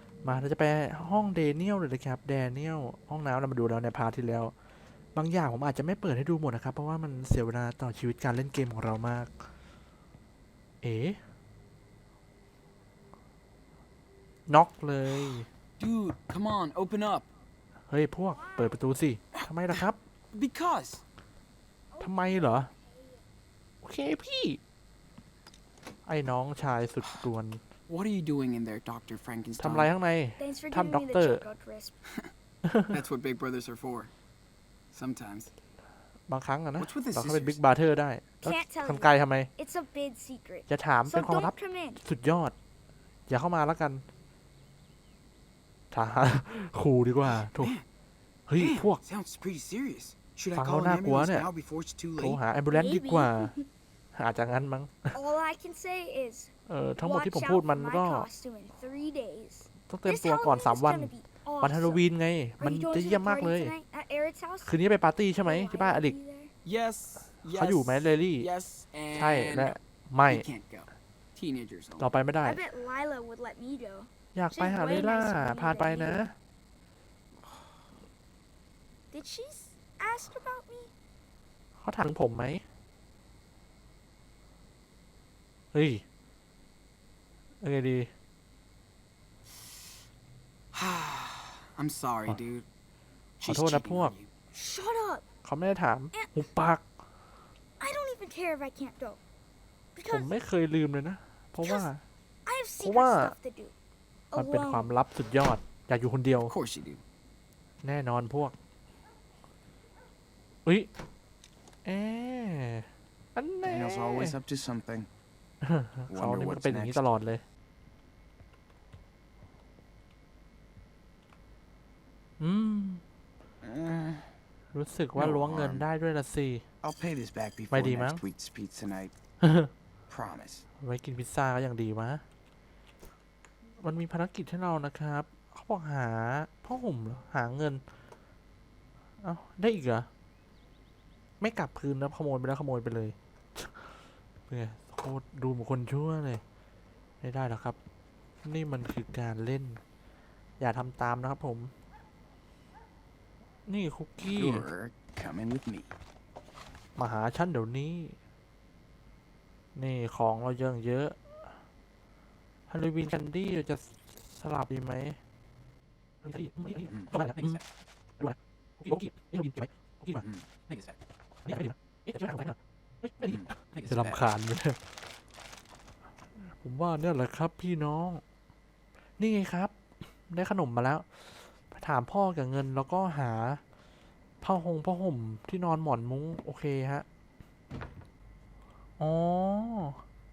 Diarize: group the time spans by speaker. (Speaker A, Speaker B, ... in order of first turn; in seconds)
Speaker A: 0.2-4.5, 5.1-9.4, 10.8-11.2, 14.5-15.5, 17.9-20.0, 22.0-22.7, 23.8-24.6, 26.1-27.6, 29.6-31.4, 32.6-33.0, 36.3-39.5, 40.7-42.5, 43.3-44.0, 45.9-47.7, 48.5-49.0, 50.5-51.5, 52.2-53.5, 54.1-55.2, 56.7-58.3, 59.9-63.7, 64.6-66.1, 67.5-68.5, 69.1-70.5, 72.0-72.6, 74.3-76.3, 81.8-82.6, 85.7-86.0, 87.6-88.1, 93.4-94.1, 95.4-96.8, 100.1-102.0, 102.8-103.3, 104.3-106.5, 107.8-108.5, 111.8-114.3, 115.6-117.4, 122.4-123.0, 124.7-126.6, 127.7-128.2, 129.4-129.7, 130.8-132.2, 133.8-137.8, 139.2-140.1, 141.4-144.0, 144.5-146.4, 147.2-147.8, 148.4-149.8, 150.6-151.7, 153.7-154.7, 157.0-158.2, 159.8-161.2, 162.7-165.2, 166.2-167.6, 168.2-170.8, 171.4-174.8, 176.4-178.2, 179.2-179.8, 180.3-183.6, 184.4-187.1, 189.0-190.0
Speaker B: 15.8-17.3, 19.3-21.0, 27.9-29.9, 32.9-34.1, 34.9-35.5, 36.8-37.6, 47.3-47.8, 48.6-52.4, 66.6-72.1, 77.4-77.7, 90.7-92.7, 93.4-94.3, 106.5-107.0, 113.6-115.1, 116.1-117.0, 123.6-124.3, 125.2-125.8, 126.8-129.1, 130.1-130.6, 154.2-155.9, 166.8-167.4, 170.2-170.5, 173.2-174.2
Speaker C: 22.0-22.3, 30.4-31.9, 38.4-42.0, 52.7-53.7, 55.1-62.0, 62.6-64.8, 65.4-66.5, 72.4-76.3, 79.1-80.9, 94.5-95.2, 97.8-99.2, 99.9-100.4, 101.6-101.9, 102.5-103.7, 104.3-104.9